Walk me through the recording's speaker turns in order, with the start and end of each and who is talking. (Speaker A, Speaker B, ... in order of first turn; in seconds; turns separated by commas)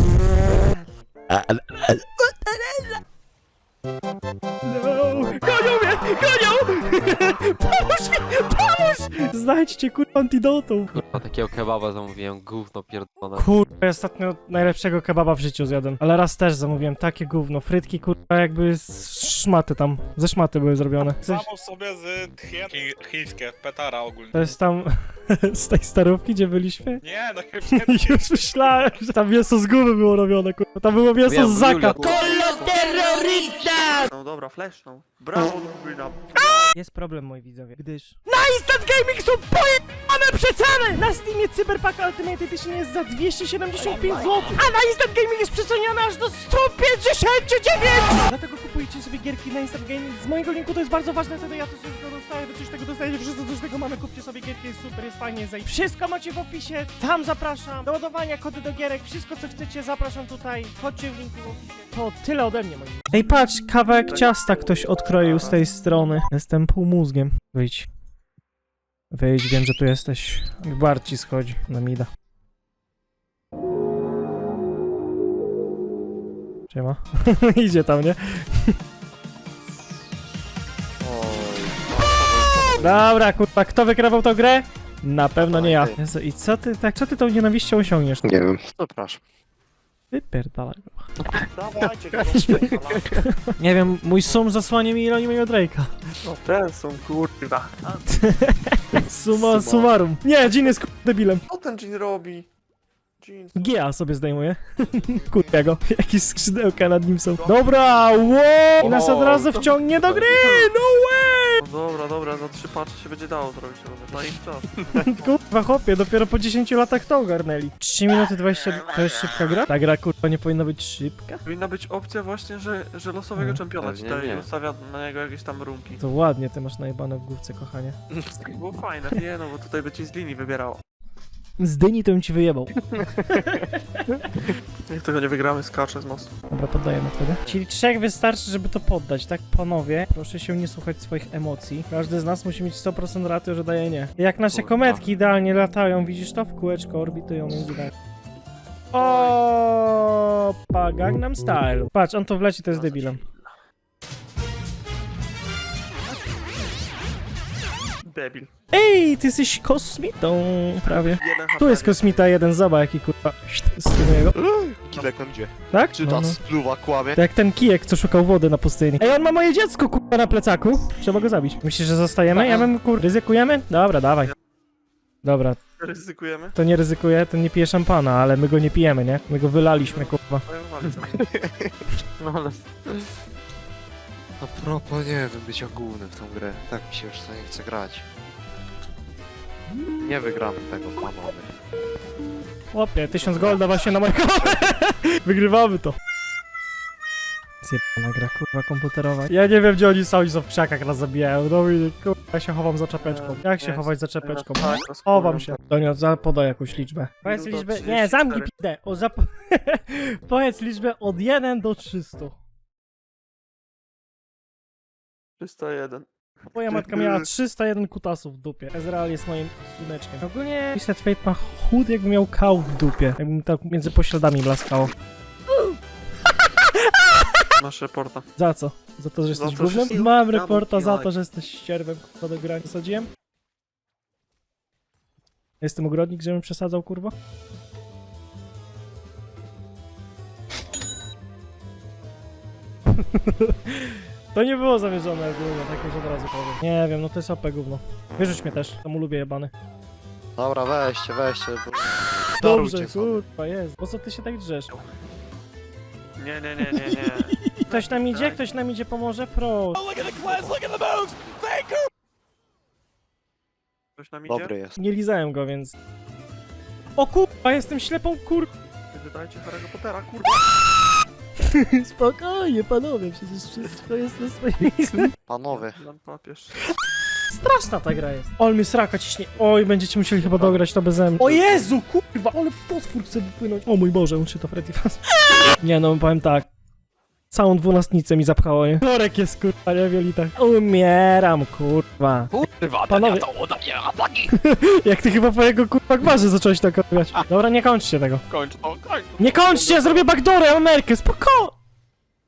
Speaker A: 2.3-2.9, Speaker A: 4.6-11.2, Speaker B: 10.9-13.5, Speaker A: 13.3-21.4, Speaker C: 21.1-24.5, Speaker A: 24.3-27.0, Speaker C: 27.0-28.9, Speaker A: 27.7-33.9, Speaker B: 31.2-32.5, Speaker D: 34.1-36.7, Speaker A: 36.7-67.9, Speaker D: 64.1-65.6, Speaker A: 69.1-72.1, Speaker A: 76.7-78.7, Speaker E: 81.0-83.1, Speaker A: 82.8-88.2, Speaker E: 85.4-86.0, Speaker E: 88.2-89.2, Speaker A: 90.1-91.1, Speaker D: 91.5-93.2, Speaker A: 92.3-92.6, Speaker A: 93.1-95.9, Speaker D: 96.2-98.0, Speaker A: 98.1-101.4, Speaker E: 99.3-99.9, Speaker D: 101.5-102.5, Speaker D: 103.2-103.8, Speaker A: 103.5-111.6, Speaker D: 107.4-107.7, Speaker B: 108.8-110.2, Speaker D: 111.6-115.4, Speaker A: 114.9-121.4, Speaker D: 121.4-126.0, Speaker B: 123.8-124.5, Speaker A: 126.0-128.0, Speaker D: 128.5-130.8, Speaker A: 131.6-133.8, Speaker B: 132.9-133.7, Speaker D: 134.9-136.3, Speaker A: 136.5-147.9, Speaker B: 144.5-145.0, Speaker A: 148.9-153.2, Speaker D: 148.9-149.4, Speaker D: 152.7-153.5, Speaker D: 158.0-158.5, Speaker A: 158.7-164.4, Speaker D: 160.8-162.2, Speaker E: 164.3-167.2, Speaker A: 165.7-166.4, Speaker A: 167.1-174.3, Speaker B: 172.3-172.7, Speaker A: 175.2-175.6, Speaker D: 175.8-176.6, Speaker A: 176.6-180.4, Speaker D: 179.7-181.4, Speaker E: 181.3-181.7, Speaker B: 182.2-183.1, Speaker E: 184.4-188.0, Speaker E: 190.0-191.5, Speaker A: 192.7-196.0, Speaker A: 197.6-212.3, Speaker D: 203.0-205.6, Speaker D: 207.2-208.5, Speaker D: 215.4-216.1, Speaker A: 216.5-224.9, Speaker D: 216.7-217.3, Speaker A: 226.4-227.4, Speaker D: 227.6-228.2, Speaker A: 228.4-233.1, Speaker D: 229.3-231.1, Speaker A: 235.6-237.1, Speaker A: 242.9-249.5, Speaker E: 250.3-253.2, Speaker A: 252.4-254.7, Speaker D: 256.2-258.4, Speaker A: 256.6-259.9, Speaker D: 259.9-260.6, Speaker D: 264.0-264.5, Speaker E: 264.3-264.8, Speaker A: 264.8-265.7, Speaker A: 267.0-268.5, Speaker D: 268.9-270.4, Speaker A: 271.4-275.1, Speaker E: 274.9-275.8, Speaker D: 275.5-276.5, Speaker A: 277.3-286.5, Speaker E: 280.2-280.6, Speaker A: 287.3-292.3, Speaker B: 292.3-294.3, Speaker A: 292.9-293.3, Speaker A: 294.3-298.2, Speaker B: 298.4-299.6, Speaker A: 299.2-301.6